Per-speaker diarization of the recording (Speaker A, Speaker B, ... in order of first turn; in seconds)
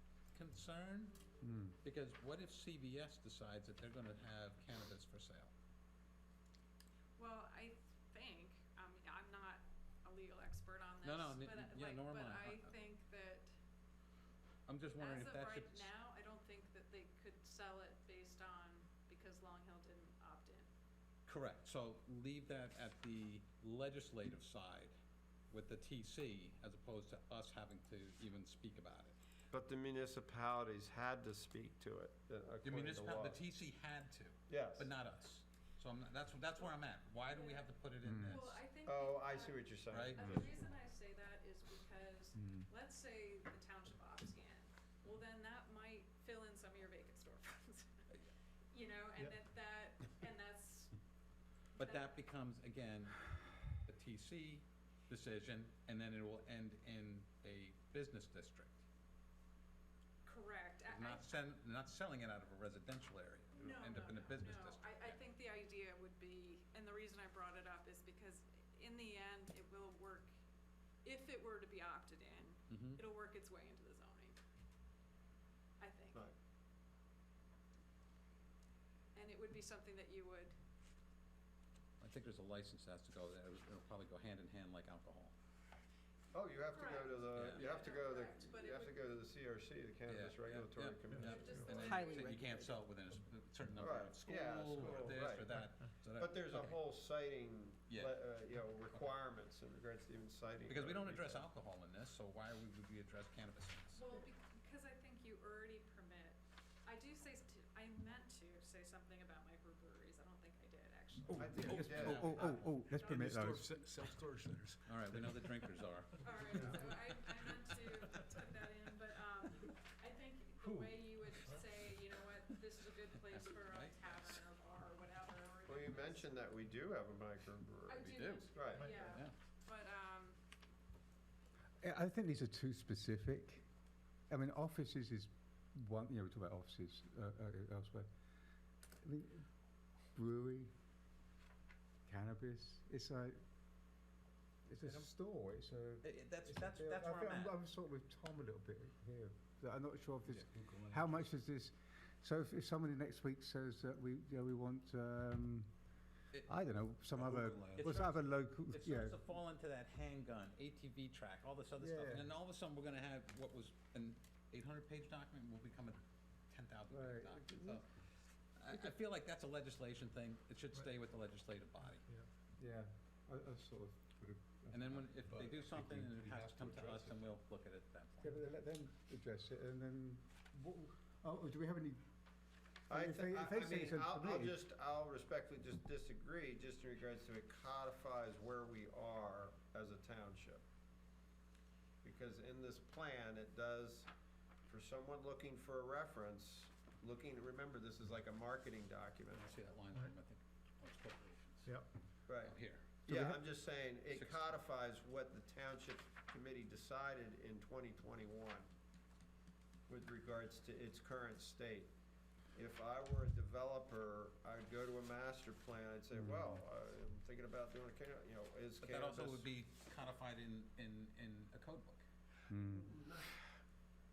Speaker A: 0.3-1.1, 1.8-5.5, 11.0-12.7, 14.7-15.9, 21.2-24.9, 25.5-29.1, 32.6-38.6, 39.9-40.4, 51.8-58.8, 60.9-65.2, 72.7-73.0, 82.0-85.3, 87.3-87.7, 90.1-96.8, 97.9-98.2, 100.7-104.0, 111.4-112.8, 114.8-117.0, 123.3-124.3, 128.0-129.3, 146.0-147.6, 157.1-167.8, 168.6-172.1, 174.7-178.3, 199.3-201.7, 202.4-203.0, 204.1-204.5, 218.8-222.0
Speaker B: 1.4-1.8, 38.0-38.5, 42.4-42.7, 111.3-113.8, 131.8-133.6, 134.3-138.1, 139.0-139.5, 140.1-140.7, 142.1-143.4, 144.7-155.7, 156.4-159.3, 161.8-162.3, 166.9-167.8, 172.6-175.1, 178.2-182.0, 182.9-184.6, 203.1-203.4, 216.1-216.6, 222.5-222.9
Speaker C: 7.2-13.5, 14.9-20.7, 37.3-37.7, 38.2-48.1, 48.7-50.9, 51.7-52.1, 60.2-61.3, 63.6-70.3, 71.0-74.4, 75.8-76.3, 79.1-80.5, 86.7-89.0, 91.1-92.6, 104.0-111.8, 116.2-126.4, 127.9-130.4
Speaker D: 29.5-33.4, 34.5-34.9, 38.9-40.6, 86.3-92.3, 93.8-101.5, 111.3-112.6, 125.7-129.2, 182.9-190.6, 192.0-194.1, 194.7-199.5, 202.3-208.7, 209.9-211.9, 212.5-219.5, 222.5-223.5
Speaker E: 111.6-116.9, 150.4-151.2, 175.3-177.1